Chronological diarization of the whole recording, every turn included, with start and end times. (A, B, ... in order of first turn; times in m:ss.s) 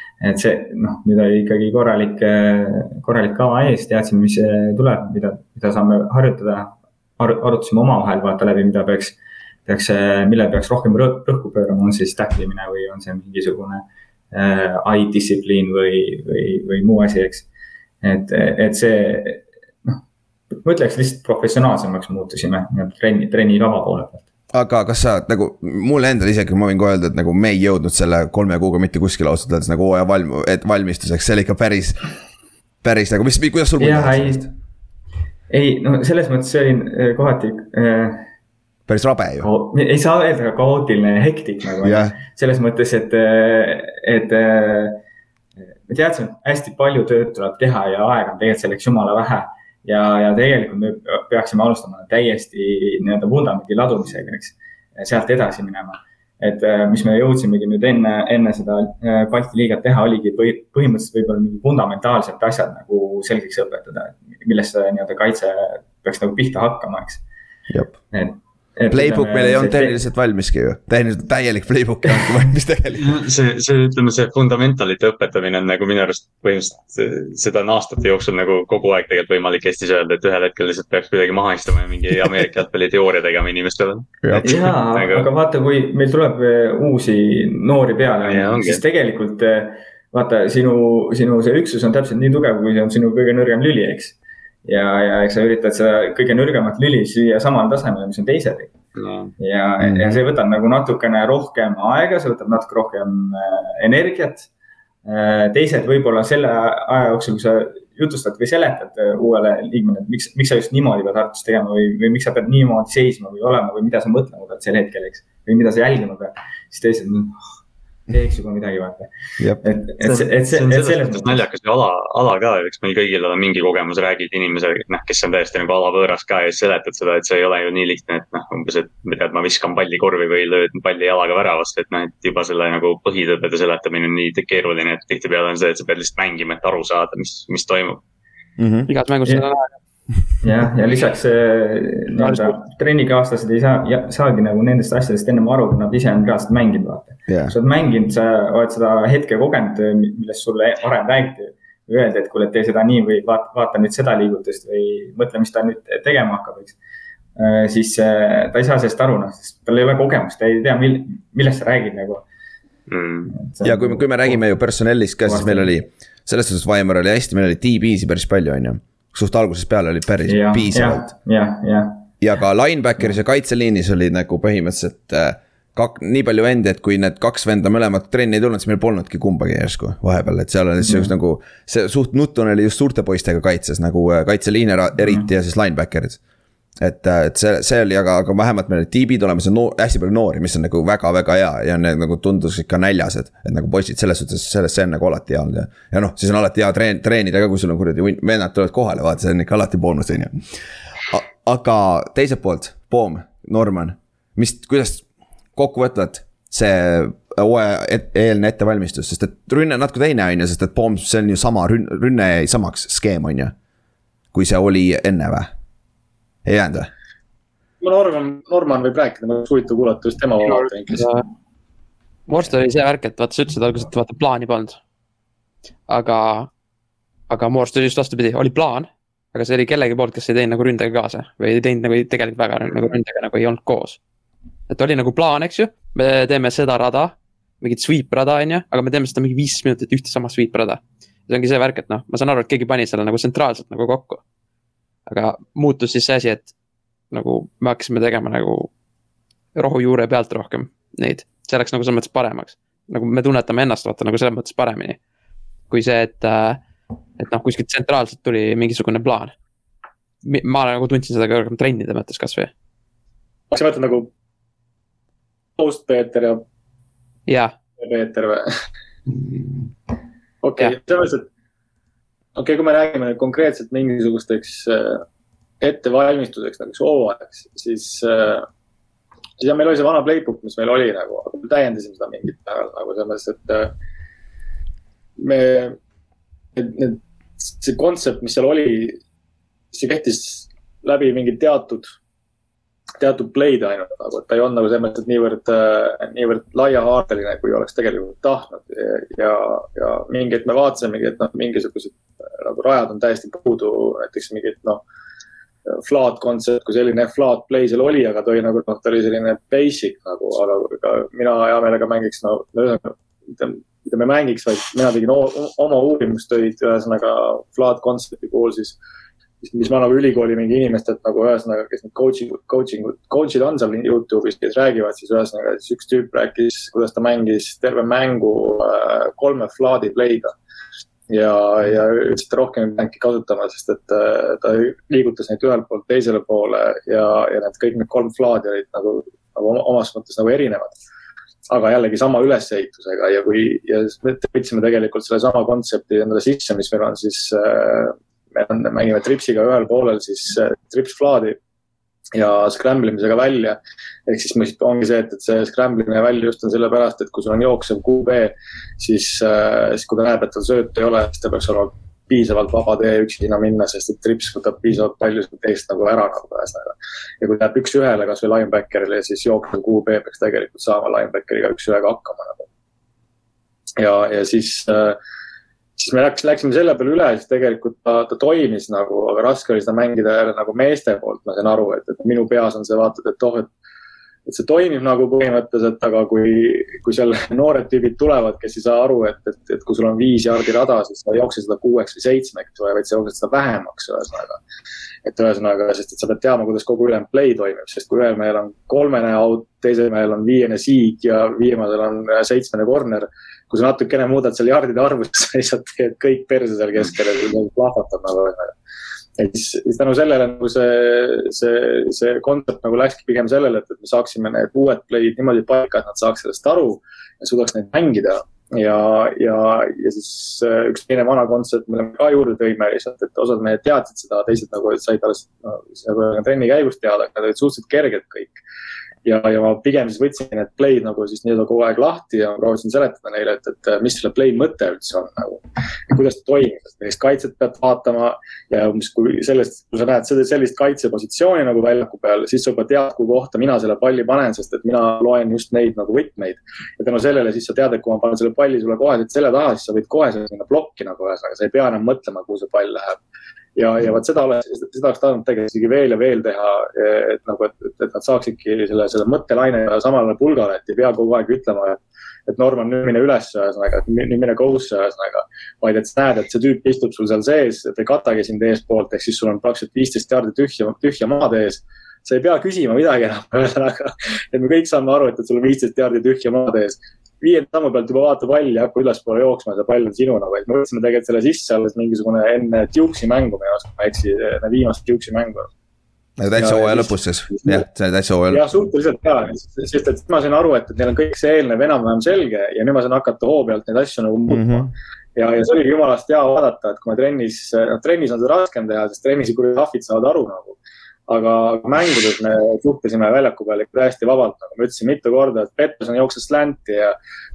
0:00.2-0:17.4 A
0:18.0-0:20.0 A
0:20.6-0:24.2 A
0:24.5-0:32.1 B
0:32.8-0:34.5 B
0:33.8-0:34.5 A
0:35.5-0:38.3 A
0:38.9-0:39.5 B
0:39.4-0:45.0 A
0:41.8-0:42.2 B
0:45.6-1:07.2 A
1:08.1-1:10.0 A
1:08.9-1:13.1 B
1:13.0-1:25.2 C
1:24.2-1:24.7 B
1:24.4-1:38.7 A
1:28.2-1:28.8 C
1:39.0-1:39.3 C
1:39.4-1:44.5 A
1:39.8-1:40.2 B
1:45.0-1:57.4 A
1:58.1-1:59.1 A
1:59.6-2:01.4 A
2:00.0-2:18.0 C
2:18.6-2:18.9 B
2:18.9-2:19.7 D
2:20.4-2:36.7 A
2:22.2-2:22.6 D
2:27.3-2:27.5 B
2:37.4-2:42.2 A
2:42.9-2:43.3 C
2:43.3-2:44.4 A
2:43.6-2:51.0 B
2:45.2-2:45.7 A
2:50.3-2:52.1 A
2:52.2-3:06.2 B
3:00.8-3:01.1 A
3:05.0-3:05.2 A
3:06.8-3:20.4 B
3:21.1-3:25.0 B
3:25.6-3:33.5 B
3:34.3-3:35.5 B
3:36.4-3:36.9 B
3:37.8-3:41.1 E
3:40.5-3:41.2 D
3:42.3-3:44.8 D
3:45.9-3:46.5 D
3:47.3-3:54.0 D
3:54.7-4:04.2 D
4:05.1-4:06.5 D
4:07.1-4:08.7 D
4:09.5-4:15.0 D
4:15.7-4:16.6 D
4:17.2-4:19.3 D
4:20.2-4:22.5 D
4:23.5-4:24.1 E
4:25.6-4:26.4 E
4:27.3-4:27.5 D
4:27.8-4:28.5 E
4:30.4-4:31.2 E
4:32.4-4:35.0 E
4:35.6-4:38.4 E
4:39.4-4:43.7 E
4:45.2-4:45.8 E
4:46.6-4:49.0 E
4:49.7-4:51.9 E
4:53.0-5:04.8 E
5:05.7-5:18.8 E
5:19.4-5:30.3 E
5:31.1-5:40.7 E
5:41.5-5:51.4 E
5:52.1-6:12.4 E
6:13.8-6:15.0 E
6:15.8-6:23.5 E
6:24.3-6:34.4 E
6:35.0-6:48.5 E
6:49.2-7:08.4 E
7:09.0-7:33.0 E
7:33.6-8:05.5 E
8:06.2-8:08.4 B
8:06.3-8:07.6 E
8:08.3-8:26.9 E
8:14.3-8:14.7 B